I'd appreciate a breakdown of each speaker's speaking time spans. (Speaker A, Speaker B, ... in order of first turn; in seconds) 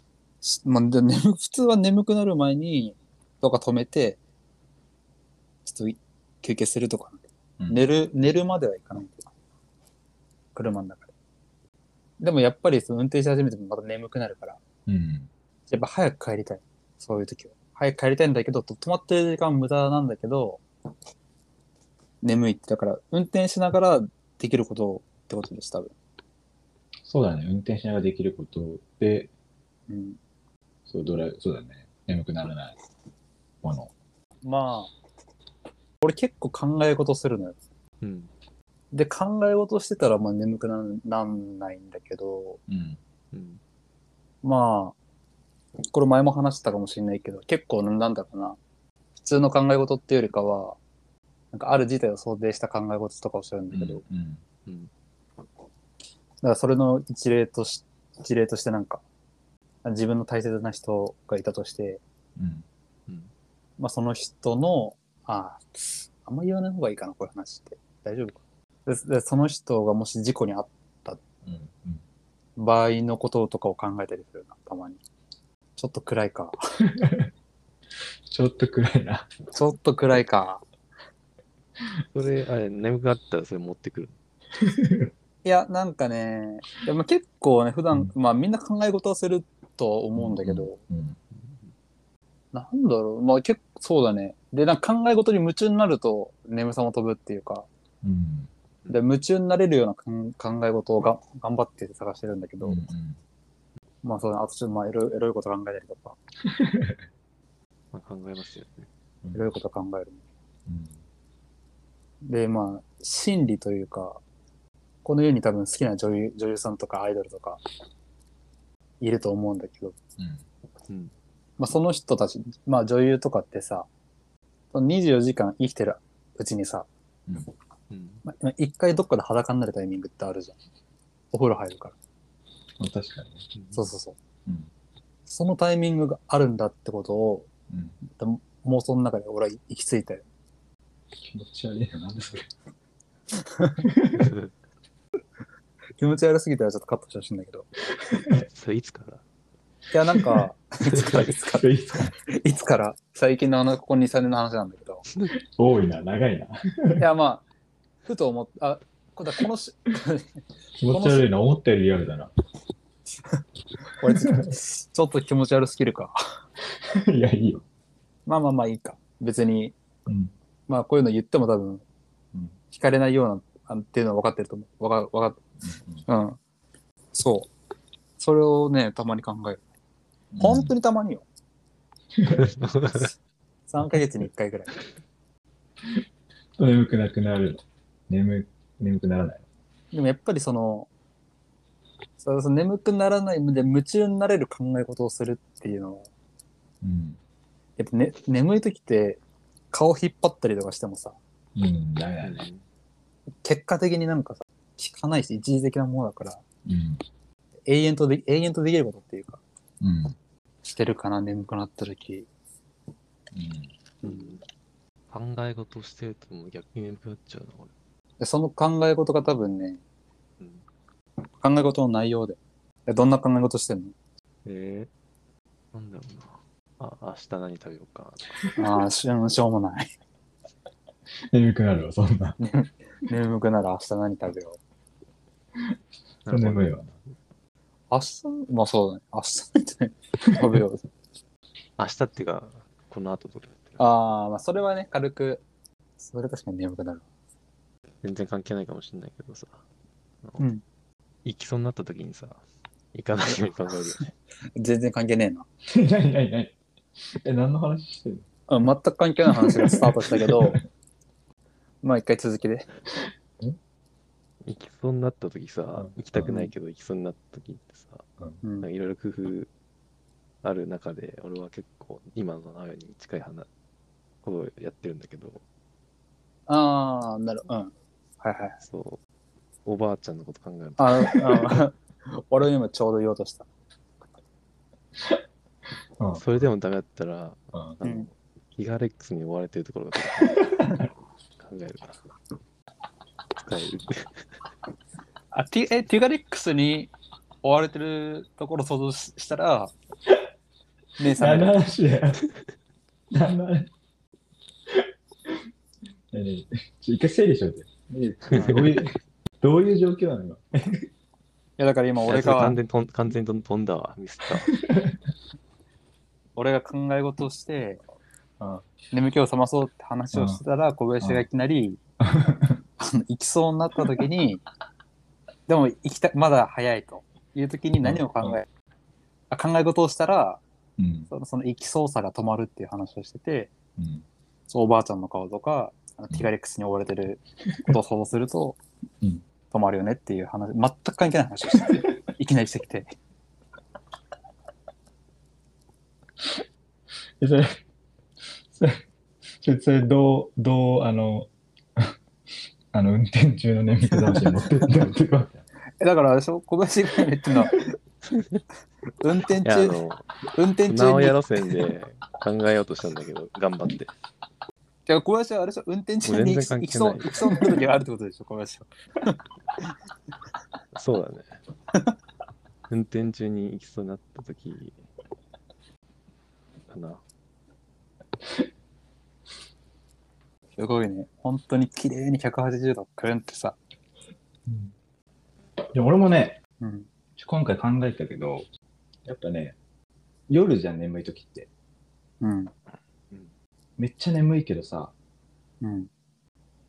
Speaker A: 0.4-4.2, 5.6-9.3, 10.5-11.1, 12.2-14.6, 15.7-20.6, 22.2-25.9, 29.9-30.2, 34.4-34.9, 36.0-37.6, 38.9-42.6, 44.4-44.9, 45.8-48.6, 49.2-50.8, 51.5-54.0, 56.4-59.0, 59.8-62.0, 63.8-71.2, 72.6-75.0, 75.8-76.6, 79.5-80.6, 85.4-90.8, 92.5-97.7, 98.9-102.8, 104.0-106.2, 109.3-110.2, 112.2-114.2, 115.0-117.6, 119.0-119.9, 121.6-123.9, 124.7-126.9, 128.2-130.6, 131.3-131.9, 133.7-134.2, 135.3-137.5, 138.1-140.2, 143.4-143.8, 146.0-147.7, 149.9-151.7, 152.2-155.0, 157.0-157.4, 158.0-160.4, 160.9-161.3, 164.0-166.2, 168.2-169.7, 170.7-171.8, 172.7-175.4, 176.1-176.4, 177.1-177.5, 178.2-179.6, 180.4-181.2, 183.7-184.8, 189.9-190.9, 192.2-196.1, 197.8-199.2, 199.7-201.2, 203.4-206.4, 207.7-209.4, 210.6-212.3, 218.2-219.8, 221.4-223.9, 228.6-229.9, 232.4-234.6, 237.9-240.8, 243.8-245.4, 246.0-247.0, 254.6-255.4, 258.5-260.6, 261.8-262.7, 268.4-268.7, 276.5-278.6, 280.8-283.4, 287.8-288.1, 295.3-296.9, 297.4-299.7, 301.0-301.6, 308.3-308.7, 311.6-312.6, 316.4-317.8, 318.9-321.8, 322.8-324.4, 325.5-328.4, 329.3-330.4, 331.1-333.5, 334.5-338.6, 339.5-342.9, 355.8-357.6, 359.0-359.8, 360.3-361.2, 364.9-369.7, 380.6-383.6, 386.6-386.9, 392.2-392.5, 395.6-395.9
Speaker B: 7.6-7.9, 14.8-15.3, 27.0-29.3, 30.9-32.8, 33.6-33.9, 42.7-43.0, 53.7-54.4, 62.4-62.6, 71.4-72.0, 77.0-77.3, 78.3-79.3, 84.6-85.1, 90.2-91.2, 98.0-98.5, 102.6-103.2, 106.5-107.0, 110.7-111.0, 120.2-120.4, 132.8-133.4, 137.7-138.0, 141.2-142.5, 143.8-144.3, 151.4-152.1, 155.6-157.1, 160.8-162.3, 164.2-164.5, 166.9-167.6, 170.1-170.3, 175.6-176.1, 180.3-180.7, 182.2-182.5, 186.6-189.4, 196.8-197.2, 201.6-202.4, 206.7-207.0, 209.8-210.2, 213.3-213.7, 231.3-232.4, 236.3-236.9, 255.7-256.6, 257.1-258.3, 259.4-260.6, 265.7-266.5, 287.5-287.8, 290.4-290.8, 301.1-302.2, 303.1-303.7, 304.8-305.3, 306.1-310.9, 314.5-315.0, 318.4-318.6, 320.1-320.4, 321.0-321.2, 322.0-322.6, 327.8-328.4, 330.8-331.1, 333.8-334.0, 347.2-347.6, 348.5-348.8, 349.3-351.9, 352.7-355.4, 384.4-384.7, 385.7-386.4, 387.2-388.4, 389.1-389.6, 390.3-391.5, 393.8-394.9
Speaker C: 38.0-38.3, 43.3-43.6, 82.1-84.2, 91.3-91.7, 107.9-108.9, 127.9-128.2, 133.5-133.9, 144.2-144.5, 148.3-149.2, 182.4-183.1, 202.2-202.6, 214.0-214.4, 215.1-217.7, 224.4-224.9, 225.7-228.3, 236.2-236.8, 241.8-243.8, 248.0-249.6, 251.2-252.4, 252.9-254.0, 264.4-268.0, 268.6-269.5, 270.4-273.5, 274.2-275.4, 278.6-279.0, 279.6-281.1, 286.1-290.4, 291.4-292.0, 293.4-294.2, 308.3-308.6, 312.0-314.5, 358.1-358.4, 359.4-360.1, 360.7-363.9, 366.0-367.6, 370.7-371.4, 372.7-374.8, 376.7-377.0